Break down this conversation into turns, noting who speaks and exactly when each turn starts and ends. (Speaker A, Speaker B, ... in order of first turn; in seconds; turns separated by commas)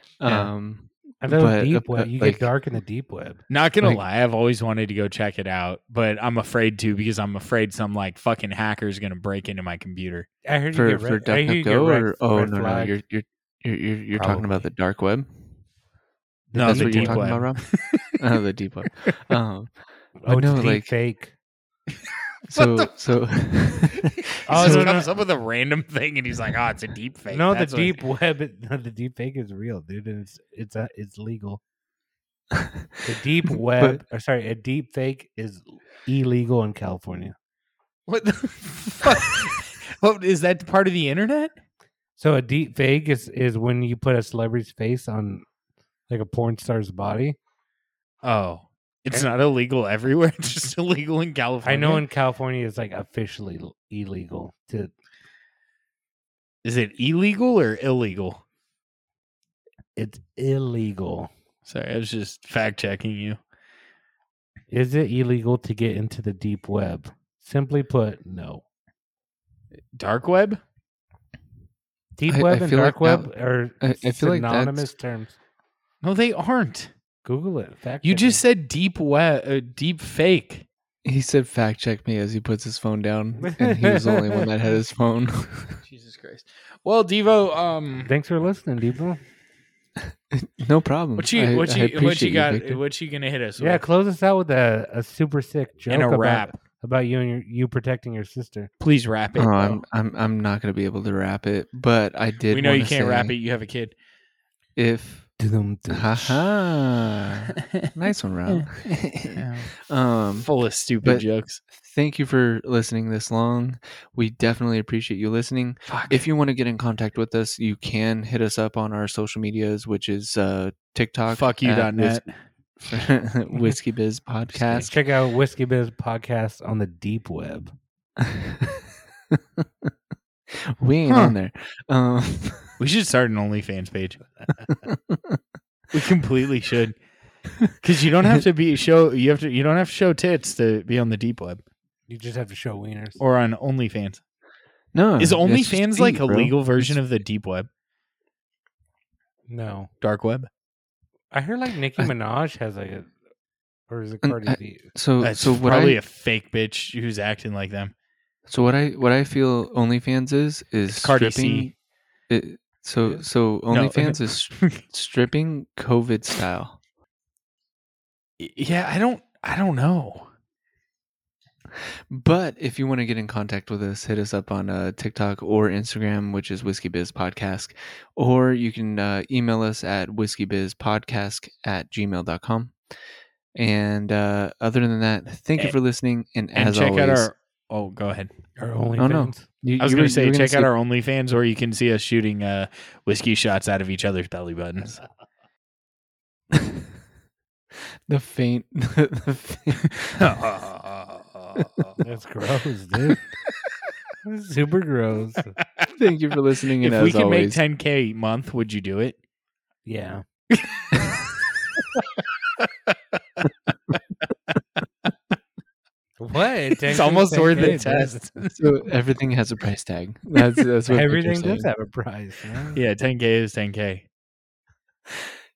Speaker A: 0.2-2.5, Speaker B: 0.2-0.5, Speaker C: 1.2-3.4, Speaker B: 3.5-10.3, Speaker C: 10.4-13.0, Speaker A: 10.7-15.3, Speaker B: 14.1-14.6, Speaker C: 16.5-17.4, Speaker B: 16.5-18.1, Speaker A: 16.6-19.7, Speaker C: 20.2-21.3, Speaker A: 20.3-20.9, Speaker A: 22.5-25.1, Speaker B: 22.5-22.9, Speaker B: 23.8-28.0, Speaker C: 24.5-25.1, Speaker C: 27.3-31.6, Speaker A: 32.5-32.9, Speaker C: 33.0-37.4, Speaker B: 38.1-41.5, Speaker C: 42.2-45.5, Speaker C: 46.1-47.4, Speaker B: 48.2-52.0, Speaker C: 51.6-54.9, Speaker B: 56.6-58.4, Speaker C: 60.0-61.3, Speaker B: 61.7-63.4, Speaker C: 64.7-68.7, Speaker B: 70.0-70.6, Speaker C: 72.2-75.4, Speaker A: 72.3-74.9, Speaker B: 76.0-76.9, Speaker C: 77.2-78.4, Speaker B: 78.0-80.7, Speaker A: 81.0-85.8, Speaker C: 83.4-84.5, Speaker B: 85.8-88.1, Speaker C: 88.0-89.2, Speaker A: 90.0-92.8, Speaker B: 91.2-93.8, Speaker C: 93.6-98.7, Speaker B: 95.9-96.5, Speaker B: 98.8-99.8, Speaker A: 99.4-103.3, Speaker B: 102.5-103.9, Speaker A: 104.8-105.3, Speaker C: 105.4-106.4, Speaker A: 105.9-110.5, Speaker B: 109.2-109.7, Speaker B: 110.4-111.6, Speaker A: 111.0-122.2, Speaker B: 115.9-116.2, Speaker B: 121.3-122.3, Speaker A: 122.8-125.0, Speaker C: 124.6-127.8, Speaker A: 128.2-129.9, Speaker A: 130.5-132.8, Speaker B: 131.1-131.3, Speaker B: 132.8-134.2, Speaker A: 134.7-135.4, Speaker B: 135.9-137.0, Speaker B: 137.8-141.6, Speaker C: 142.1-143.2, Speaker B: 143.2-144.2, Speaker A: 144.9-147.0, Speaker B: 145.2-147.7, Speaker C: 149.5-149.9, Speaker B: 150.0-150.5, Speaker C: 151.3-153.1, Speaker C: 153.9-154.9, Speaker A: 154.2-156.0, Speaker B: 155.2-157.9, Speaker A: 158.5-161.7, Speaker B: 160.9-161.7, Speaker A: 162.3-166.8, Speaker B: 163.7-164.8, Speaker B: 168.4-170.3, Speaker A: 171.8-182.8, Speaker A: 183.6-187.3, Speaker B: 186.6-188.3, Speaker C: 188.6-189.5, Speaker A: 189.0-190.7, Speaker B: 189.8-195.0, Speaker A: 196.5-196.9, Speaker A: 198.1-200.4, Speaker B: 200.2-202.0, Speaker C: 202.0-203.2, Speaker C: 204.2-205.5, Speaker A: 205.9-207.6, Speaker B: 206.8-209.2, Speaker C: 209.9-210.2, Speaker B: 210.5-211.2, Speaker B: 212.7-213.5, Speaker C: 216.2-218.1, Speaker B: 216.9-218.6, Speaker A: 218.5-221.7, Speaker C: 220.9-222.8, Speaker B: 222.8-224.1